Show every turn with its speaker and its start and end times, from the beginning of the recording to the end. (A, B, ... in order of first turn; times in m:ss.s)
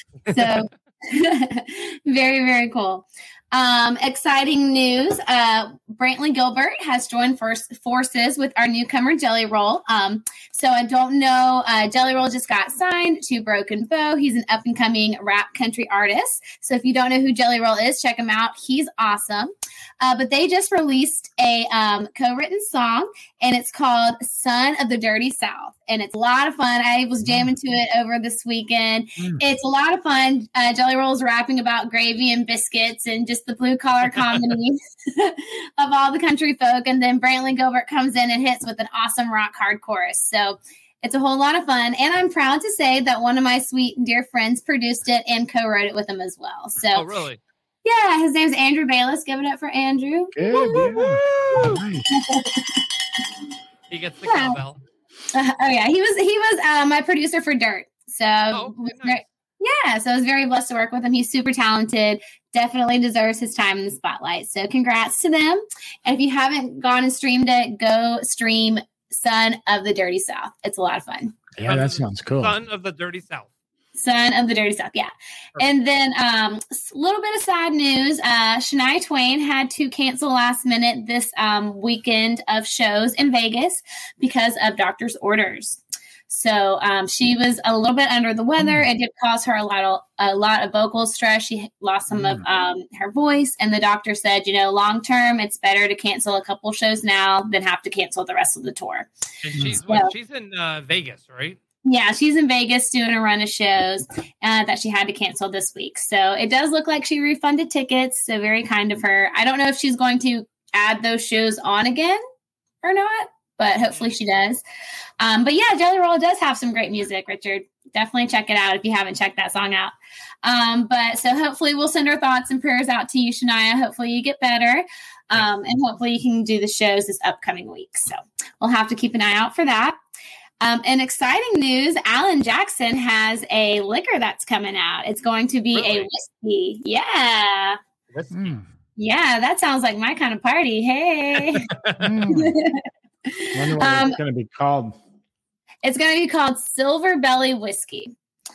0:00.3-0:47.0 A
0:27.2-0:27.5 B
0:34.1-0:34.5 C
0:46.9-0:47.4 C
0:47.8-0:51.0 A
0:50.3-0:52.1 B
0:51.3-0:51.8 C
0:52.1-0:52.8 A
0:53.9-0:54.8 C
0:54.3-0:54.6 A
0:55.3-1:11.3 A
0:58.5-0:59.2 C
1:11.6-1:12.6 B
1:11.6-1:13.5 C
1:13.9-1:39.1 A
1:28.6-1:28.8 B
1:32.1-1:32.4 B
1:39.4-1:41.6 C
1:39.5-1:39.8 B
1:39.9-1:40.1 A
1:41.8-1:52.2 A
1:52.8-1:54.6 A
1:55.2-2:10.0 A
2:10.6-2:17.8 A
2:15.7-2:16.1 C
2:18.3-2:18.6 B
2:19.0-2:21.6 A
2:21.7-2:22.1 C
2:22.0-2:22.6 B
2:22.3-2:22.8 A
2:23.4-2:24.2 A
2:23.5-2:25.0 B
2:25.8-2:28.1 A